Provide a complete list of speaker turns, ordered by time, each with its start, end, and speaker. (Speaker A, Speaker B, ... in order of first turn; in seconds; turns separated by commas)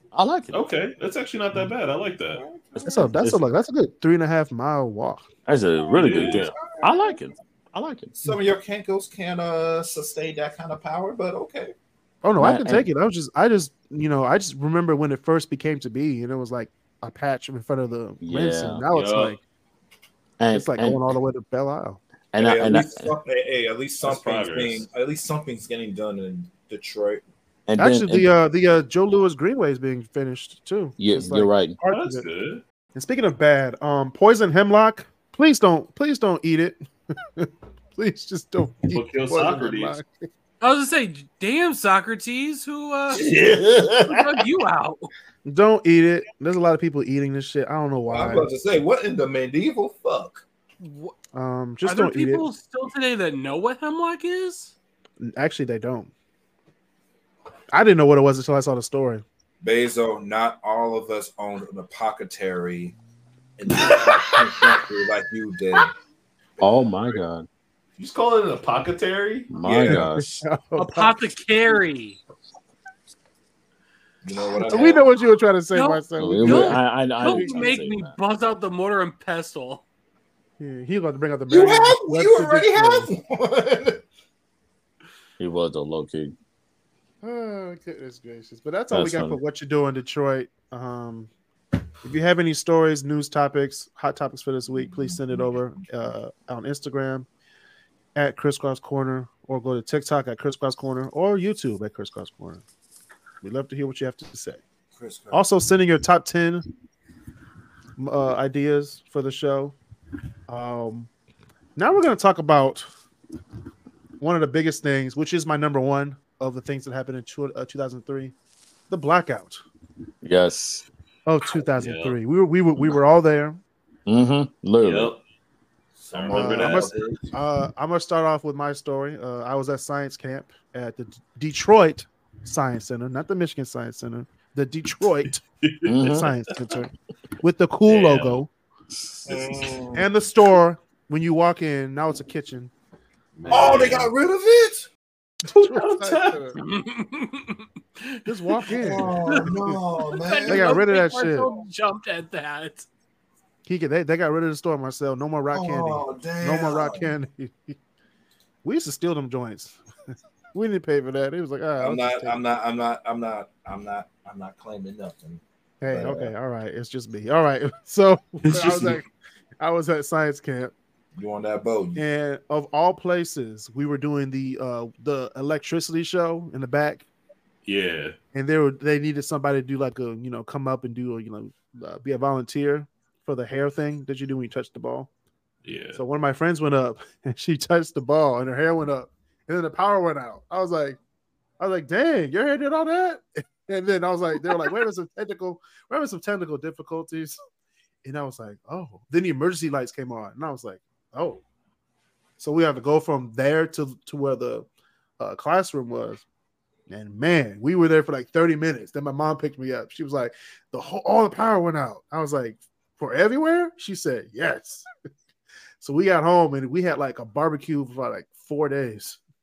Speaker A: 0.1-0.6, Speaker B: 0.5-2.4, Speaker C: 2.4-3.0, Speaker A: 2.8-3.4, Speaker D: 2.8-5.3, Speaker A: 5.5-8.1, Speaker C: 5.9-7.2, Speaker B: 5.9-6.4, Speaker C: 8.2-11.8, Speaker D: 12.2-19.4, Speaker A: 12.4-12.9, Speaker A: 18.2-18.9, Speaker B: 18.9-19.4, Speaker A: 20.4-21.0, Speaker D: 20.5-22.0, Speaker A: 22.3-23.1, Speaker C: 22.4-27.2, Speaker B: 24.0-24.9, Speaker A: 27.7-28.3, Speaker D: 27.8-32.2, Speaker A: 31.0-31.8, Speaker B: 31.9-32.6, Speaker D: 32.9-36.8, Speaker D: 37.4-40.1, Speaker B: 38.9-40.0, Speaker E: 40.6-43.3, Speaker C: 43.1-44.4, Speaker E: 44.0-45.1, Speaker D: 45.4-48.5, Speaker C: 48.1-50.4, Speaker E: 50.8-51.1, Speaker D: 51.4-52.5, Speaker E: 51.9-54.7, Speaker D: 55.2-56.1, Speaker D: 57.7-59.2, Speaker C: 59.6-62.9, Speaker C: 63.6-65.9, Speaker A: 66.6-67.5, Speaker B: 68.0-69.5, Speaker A: 69.5-70.4, Speaker C: 69.6-70.1, Speaker D: 70.1-71.2, Speaker E: 70.8-72.2, Speaker C: 74.2-75.0, Speaker D: 74.7-77.7, Speaker E: 75.7-79.8, Speaker A: 76.2-78.2, Speaker D: 80.6-83.1, Speaker C: 81.5-84.0, Speaker A: 85.4-86.3, Speaker D: 87.2-91.3, Speaker A: 88.9-89.4, Speaker D: 92.0-97.3, Speaker D: 98.1-102.6, Speaker D: 103.4-104.6, Speaker C: 105.0-105.5, Speaker D: 105.3-106.6, Speaker D: 108.0-109.8, Speaker D: 110.5-111.1, Speaker D: 111.8-112.9, Speaker D: 114.2-118.3, Speaker D: 118.9-119.6, Speaker A: 120.2-120.9, Speaker D: 121.2-123.6, Speaker B: 121.8-122.1, Speaker A: 124.1-125.1, Speaker B: 124.8-125.2, Speaker C: 126.0-127.3, Speaker B: 126.1-127.1, Speaker D: 126.3-135.4, Speaker B: 135.6-136.1, Speaker A: 135.8-136.3, Speaker D: 135.9-138.5, Speaker B: 137.9-138.4, Speaker B: 139.2-139.7, Speaker C: 139.3-140.1, Speaker D: 139.9-142.7, Speaker B: 143.4-144.1, Speaker C: 143.5-144.9, Speaker D: 145.5-146.6, Speaker B: 145.5-146.4, Speaker E: 146.6-148.7, Speaker D: 148.2-149.8, Speaker C: 148.7-150.8, Speaker E: 149.2-152.9, Speaker D: 150.5-151.5, Speaker D: 153.6-157.8, Speaker C: 155.5-157.1, Speaker D: 158.6-159.8, Speaker D: 160.5-162.4, Speaker C: 161.8-166.3, Speaker D: 165.8-169.1, Speaker B: 168.5-169.0, Speaker D: 169.6-170.7, Speaker C: 171.2-172.0, Speaker D: 171.9-177.0, Speaker B: 177.7-178.2, Speaker D: 178.3-185.1, Speaker B: 185.6-186.0, Speaker D: 185.9-191.0, Speaker D: 191.6-197.4, Speaker D: 198.0-201.4, Speaker D: 202.4-204.7, Speaker D: 205.2-206.2, Speaker D: 206.9-214.8, Speaker D: 215.8-219.2